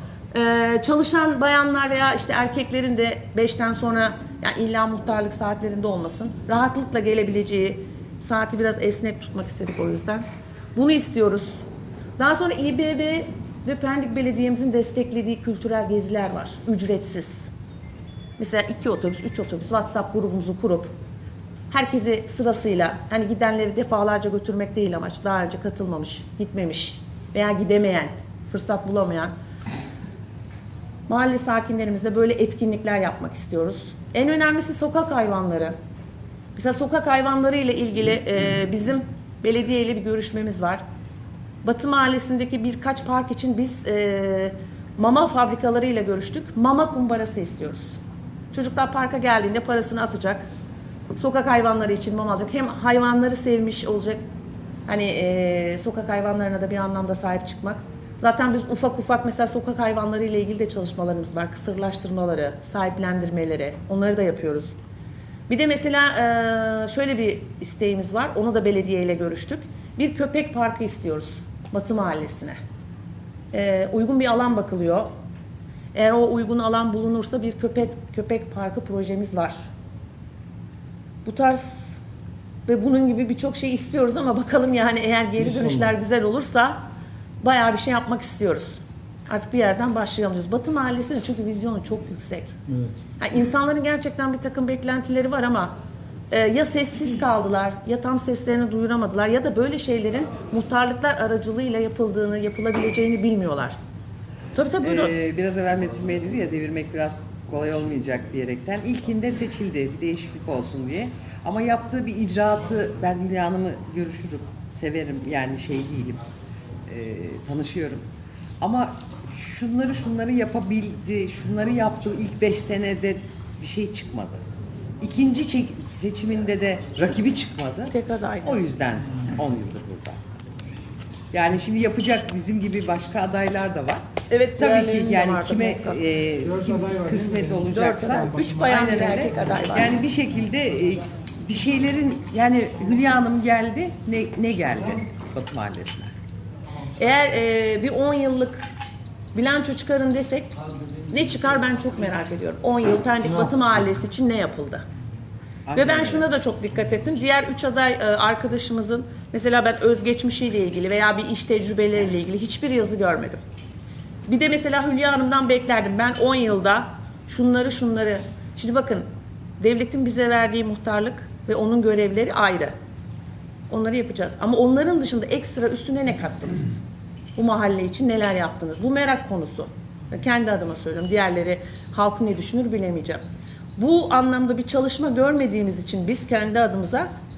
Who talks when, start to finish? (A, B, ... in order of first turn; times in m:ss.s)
0:00.3-0:11.6 A
0:12.2-0:17.5 A
0:18.4-0:20.9 A
0:21.7-0:29.3 A
0:31.1-0:35.7 A
0:36.5-0:40.8 A
0:41.6-0:48.0 A
0:48.5-0:50.4 A
0:51.2-0:54.2 A
0:54.9-1:04.7 A
1:05.5-1:12.6 A
1:13.5-1:15.1 A
1:15.9-1:19.6 A
1:21.2-1:21.9 A
1:22.7-1:26.8 A
1:25.4-1:25.9 B
1:27.4-1:32.5 A
1:32.7-1:33.0 B
1:33.2-1:35.7 A
1:36.3-1:43.7 A
1:44.5-1:45.2 A
1:44.8-1:56.2 C
1:56.9-1:58.0 C
1:58.6-2:04.4 C
2:05.0-2:10.2 C
2:07.9-2:08.6 A
2:11.3-2:14.0 C
2:14.3-2:16.0 A
2:14.6-2:26.1 C
2:16.4-2:17.6 B
2:17.6-2:19.9 A
2:18.2-2:18.6 B
2:27.0-2:28.7 A
2:29.3-2:30.5 A
2:31.1-2:34.8 A
2:33.2-2:33.5 B
2:35.7-2:36.3 C
2:35.7-2:43.4 A
2:44.3-2:49.0 A
2:49.6-2:52.7 A
2:53.7-2:56.8 A
2:57.4-3:03.2 A
3:03.8-3:07.1 A